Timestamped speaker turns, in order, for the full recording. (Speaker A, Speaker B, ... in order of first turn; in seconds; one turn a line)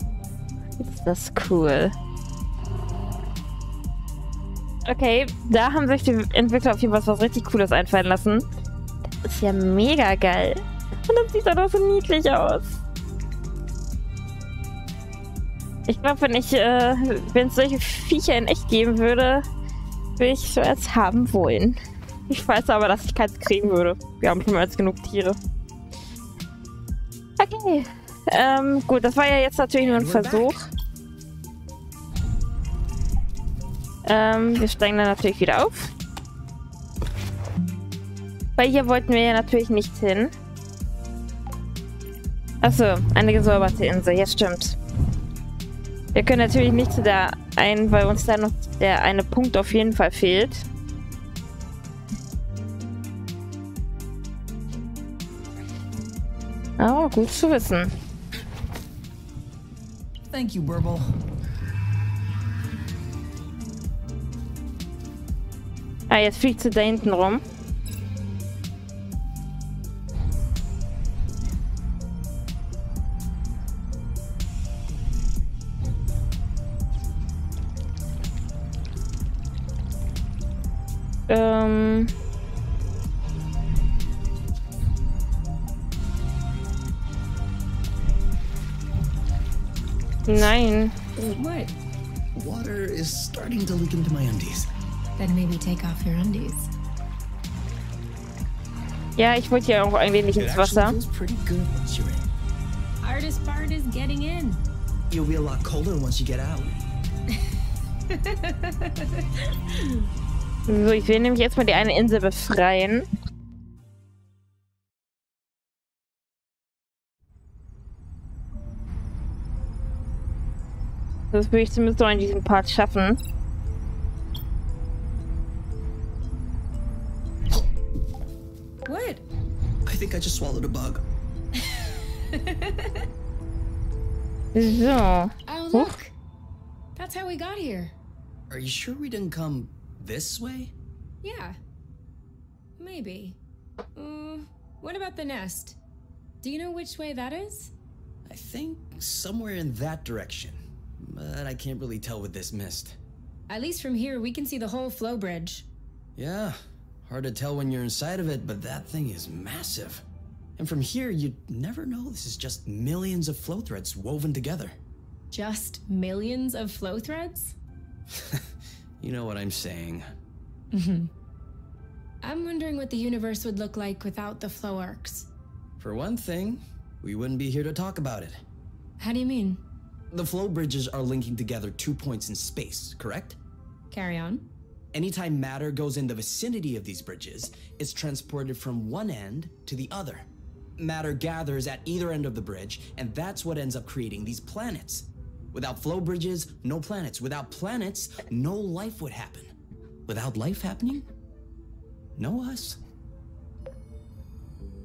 Speaker A: 0.8-1.9
Speaker A: 4.9-8.4
Speaker A: 9.2-12.8
Speaker A: 15.9-19.4
Speaker A: 20.2-21.8
Speaker A: 22.3-25.4
Speaker A: 27.4-30.7
Speaker B: 29.8-30.6
Speaker A: 34.0-35.9
Speaker A: 38.6-40.3
Speaker A: 42.6-44.8
Speaker A: 46.1-50.6
Speaker A: 56.8-57.9
Speaker B: 60.3-61.1
Speaker A: 66.1-67.4
Speaker A: 81.3-82.1
Speaker A: 90.3-91.0
Speaker B: 91.1-91.4
Speaker C: 91.3-91.7
Speaker B: 92.3-94.7
Speaker C: 95.2-96.7
Speaker A: 99.2-101.0
Speaker B: 100.3-102.2
Speaker C: 103.0-104.6
Speaker B: 105.1-106.8
Speaker C: 108.1-110.0
Speaker A: 110.7-113.0
Speaker A: 121.3-123.2
Speaker C: 128.8-129.2
Speaker B: 129.8-131.0
Speaker C: 131.6-133.1
Speaker A: 134.5-135.9
Speaker C: 135.5-136.1
Speaker C: 136.9-137.9
Speaker B: 138.5-140.7
Speaker C: 141.2-141.6
Speaker C: 142.8-143.4
Speaker C: 143.9-145.8
Speaker C: 146.4-147.7
Speaker B: 148.3-153.0
Speaker C: 153.5-155.7
Speaker B: 156.2-160.0
Speaker B: 160.6-164.8
Speaker C: 165.3-167.6
Speaker B: 168.1-168.5
Speaker B: 169.0-170.1
Speaker C: 170.7-171.1
Speaker C: 172.2-175.3
Speaker B: 175.8-178.4
Speaker C: 179.0-179.6
Speaker B: 180.1-183.4
Speaker C: 183.9-184.4
Speaker B: 184.9-190.3
Speaker B: 190.8-199.5
Speaker B: 200.1-201.1
Speaker B: 202.2-202.8